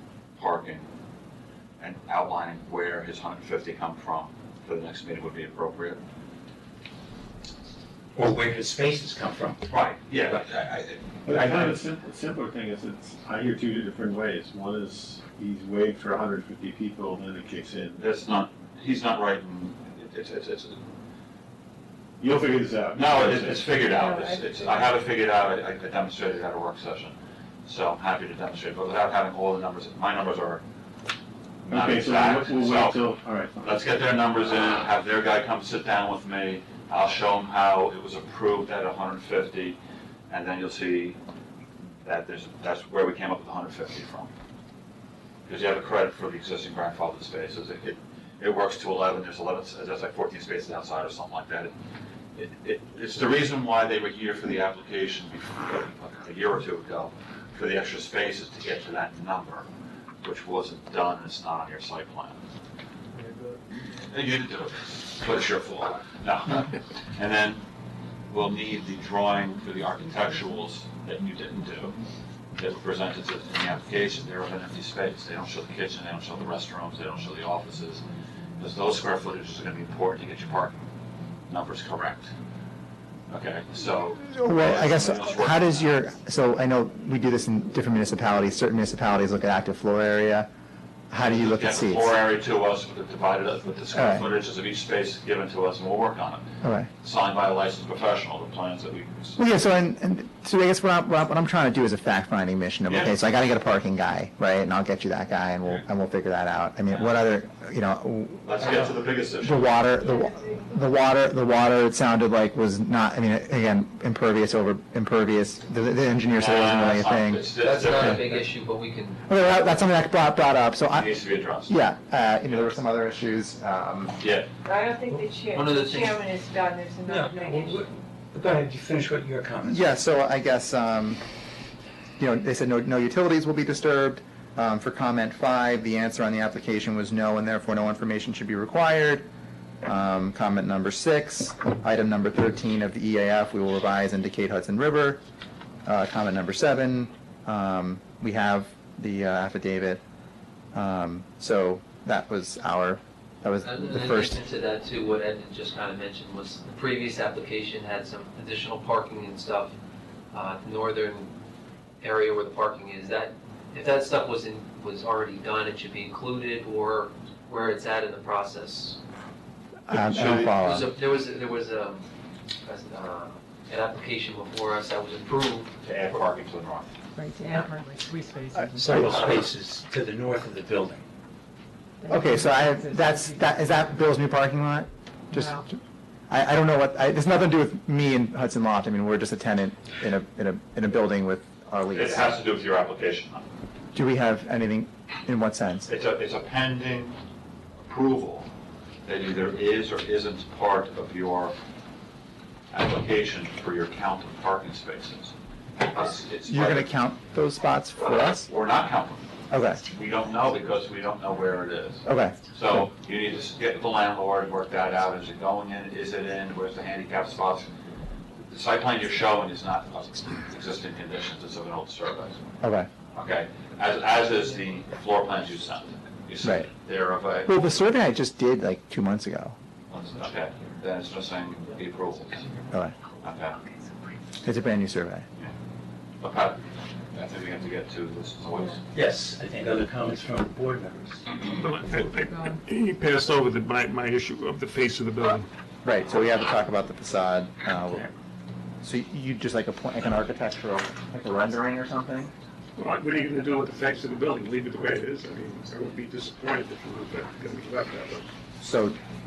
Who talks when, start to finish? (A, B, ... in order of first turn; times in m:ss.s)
0:00.4-0:00.8 A
0:01.8-0:06.0 A
0:08.2-0:09.7 B
0:09.7-0:11.8 A
0:11.2-0:18.0 C
0:18.0-0:20.8 A
0:22.2-0:23.8 C
0:22.9-0:30.6 A
0:31.7-0:33.0 A
0:31.7-0:33.8 C
0:33.6-0:39.8 A
0:40.3-0:41.2 A
0:42.0-0:44.3 A
0:45.5-0:51.7 A
0:52.4-0:59.6 A
1:00.2-1:02.4 A
1:03.9-1:07.6 A
1:08.3-1:12.0 A
1:12.6-1:18.0 A
1:18.6-1:20.8 A
1:21.5-1:22.3 A
1:23.3-1:26.0 A
1:24.3-1:30.5 D
1:31.1-1:32.1 D
1:31.2-1:36.5 A
1:33.9-1:34.2 D
1:36.6-1:36.9 D
1:37.0-1:39.4 A
1:39.4-1:58.2 D
1:42.9-1:43.2 A
1:48.4-1:49.7 A
1:56.3-1:58.4 A
1:57.6-1:59.2 E
1:59.3-2:04.2 D
2:00.9-2:01.7 A
2:04.2-2:04.5 A
2:04.6-2:07.8 F
2:05.5-2:06.2 E
2:07.0-2:09.9 B
2:09.7-2:11.2 D
2:12.2-2:19.3 D
2:19.8-2:25.2 D
2:25.8-2:30.0 D
2:30.7-2:34.4 D
2:33.6-2:39.7 E
2:40.3-2:41.3 E
2:42.0-2:49.0 E
2:49.9-2:50.9 D
2:49.9-2:50.5 A
2:50.3-2:52.1 E
2:52.6-2:55.7 E
2:55.8-2:56.9 A
2:57.2-2:59.1 G
2:58.7-3:01.0 B
3:02.0-3:04.0 G
3:02.1-3:12.4 D
3:11.9-3:13.4 A
3:13.9-3:15.9 D
3:15.9-3:17.1 A
3:17.8-3:18.5 A
3:19.0-3:21.5 A
3:22.7-3:26.9 A
3:26.5-3:28.5 D
3:28.0-3:29.2 A
3:29.5-3:29.8 D
3:29.9-3:37.7 A
3:32.0-3:32.8 D
3:38.4-3:42.4 A
3:42.6-3:42.9 D
3:43.1-3:47.5 A
3:46.4-3:46.7 D
3:47.4-3:49.6 D
3:49.9-3:52.5 A
3:52.7-3:53.0 D
3:53.2-3:53.6 A
3:54.4-3:55.2 D
3:56.2-3:58.8 A
3:58.9-4:01.4 B
4:01.4-4:05.5 H
4:05.8-4:08.1 D
4:08.8-4:12.3 D
4:12.8-4:18.3 H
4:18.6-4:19.0 D